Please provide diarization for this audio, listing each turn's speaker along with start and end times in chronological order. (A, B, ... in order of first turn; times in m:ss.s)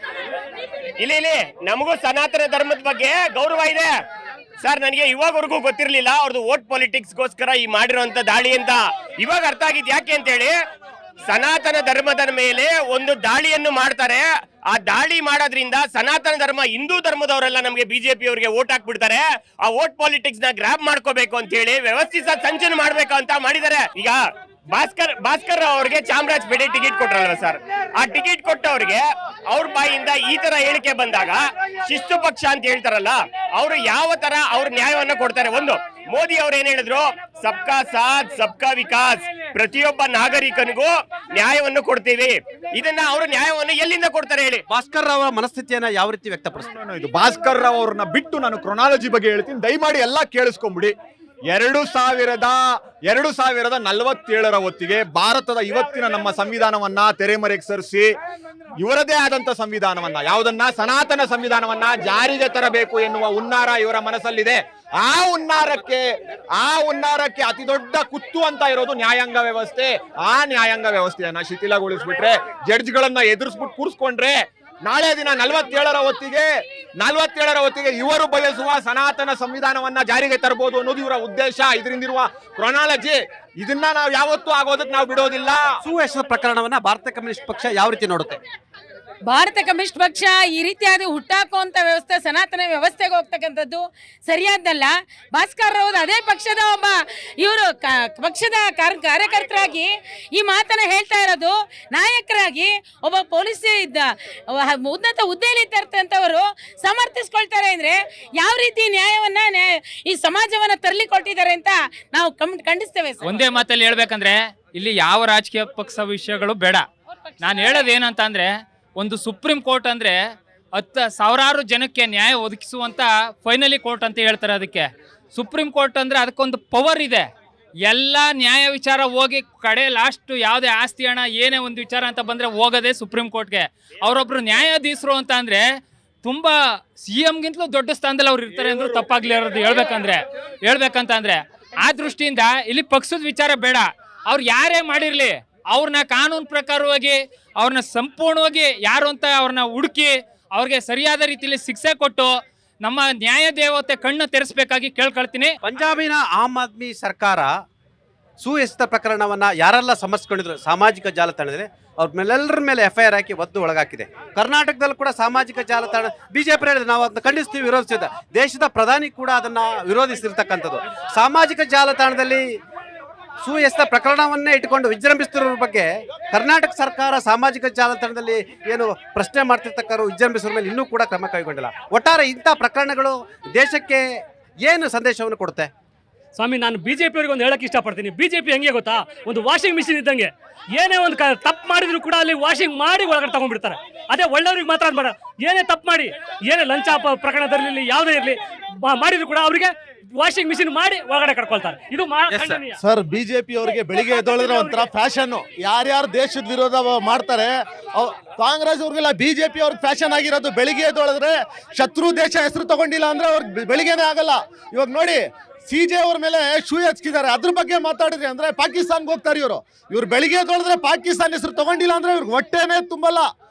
0:01.0-0:03.9 A
0:04.6-0:10.5 A
0:11.3-0:24.2 A
0:24.7-0:44.6 A
0:44.7-0:46.8 B
0:46.7-0:50.9 C
0:51.5-0:58.1 C
0:58.8-1:16.5 C
1:17.0-1:25.6 C
1:25.8-1:28.4 B
1:29.2-1:53.3 D
1:53.2-1:56.9 E
1:57.4-2:07.3 E
2:07.8-2:35.6 E
2:35.6-2:37.5 B
2:38.4-2:52.4 B
2:53.4-3:04.0 B
3:04.6-3:05.7 B
3:06.4-3:18.3 F
3:18.8-3:22.7 F
3:22.8-3:43.2 G
3:24.0-3:24.8 F